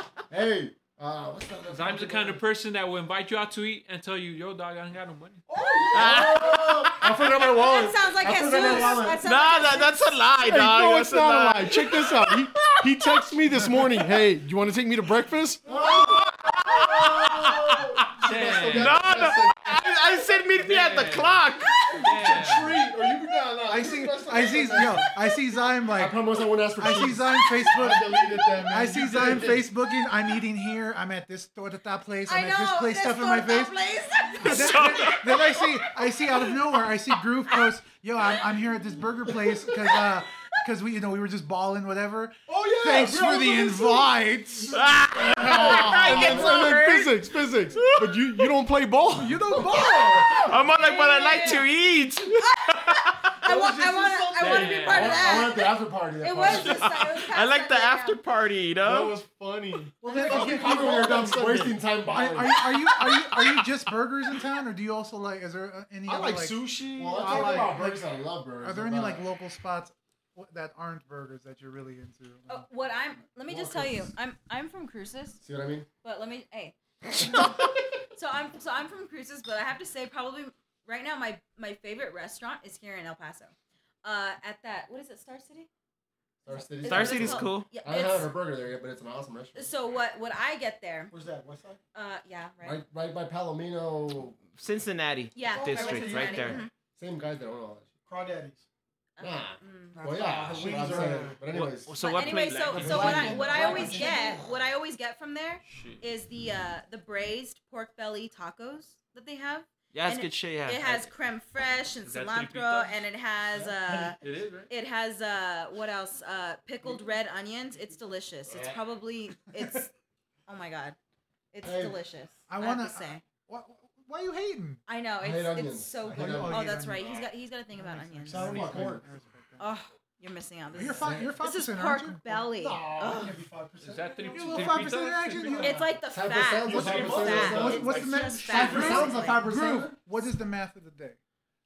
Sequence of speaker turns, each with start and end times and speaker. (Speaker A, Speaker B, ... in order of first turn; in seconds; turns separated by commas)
Speaker A: 0.3-2.4, Speaker B: 1.7-5.4, Speaker C: 5.5-6.6, Speaker A: 5.9-9.3, Speaker D: 5.9-7.0, Speaker E: 7.4-10.2, Speaker D: 8.6-13.1, Speaker C: 10.4-15.7, Speaker A: 15.7-19.8, Speaker D: 15.9-21.9, Speaker B: 18.2-19.1, Speaker B: 20.6-22.8, Speaker C: 22.0-25.1, Speaker F: 23.7-26.2, Speaker A: 25.9-27.4, Speaker F: 26.8-33.8, Speaker C: 27.6-29.7, Speaker E: 32.3-35.2, Speaker F: 34.4-44.9, Speaker D: 34.4-35.3, Speaker C: 42.5-44.1, Speaker D: 44.7-48.5, Speaker C: 45.3-50.4, Speaker A: 45.3-46.8, Speaker F: 45.6-45.9, Speaker F: 49.2-50.2, Speaker A: 49.5-50.1, Speaker E: 50.0-51.6, Speaker D: 50.3-53.4, Speaker E: 52.3-58.2, Speaker C: 53.5-55.0, Speaker B: 54.4-55.4, Speaker A: 54.6-56.9, Speaker D: 56.4-59.2, Speaker C: 58.8-61.8, Speaker F: 60.0-61.3, Speaker A: 60.2-62.6, Speaker F: 62.1-68.0, Speaker C: 66.1-67.8, Speaker A: 67.0-69.2, Speaker F: 68.6-72.7, Speaker E: 72.5-75.4, Speaker A: 73.5-74.1, Speaker A: 75.4-75.9, Speaker E: 76.0-83.5, Speaker E: 84.0-85.7, Speaker A: 86.5-89.7, Speaker E: 86.5-88.3, Speaker D: 86.8-87.7, Speaker E: 89.5-91.1, Speaker C: 91.1-91.8, Speaker E: 91.9-92.8, Speaker A: 92.6-94.4, Speaker D: 94.6-96.6, Speaker E: 95.3-96.7, Speaker C: 95.4-96.7, Speaker A: 97.0-97.9, Speaker C: 98.1-98.6, Speaker E: 99.2-100.0, Speaker A: 99.2-101.9, Speaker F: 99.9-101.4, Speaker C: 100.1-101.4, Speaker D: 101.5-103.5, Speaker E: 102.0-114.2, Speaker B: 102.1-103.5, Speaker C: 102.7-104.5, Speaker A: 103.5-104.2, Speaker B: 105.7-106.0, Speaker D: 109.9-111.1, Speaker B: 112.0-113.1, Speaker C: 113.5-114.0, Speaker B: 113.9-114.7, Speaker E: 114.7-119.9, Speaker E: 120.5-121.0, Speaker E: 121.5-123.2, Speaker A: 121.6-122.0, Speaker F: 122.5-124.8, Speaker E: 124.9-128.7, Speaker A: 125.2-126.7, Speaker F: 126.1-127.1, Speaker F: 127.7-129.7, Speaker C: 128.3-129.1, Speaker A: 128.3-129.0, Speaker E: 129.6-133.4, Speaker F: 130.7-132.2, Speaker A: 131.0-131.3, Speaker A: 132.6-133.3, Speaker C: 132.6-135.8, Speaker B: 133.8-135.9, Speaker F: 134.3-135.9, Speaker E: 135.6-139.4, Speaker A: 136.1-137.9, Speaker C: 136.6-137.8, Speaker B: 136.8-138.9, Speaker F: 137.4-141.2, Speaker A: 138.5-140.0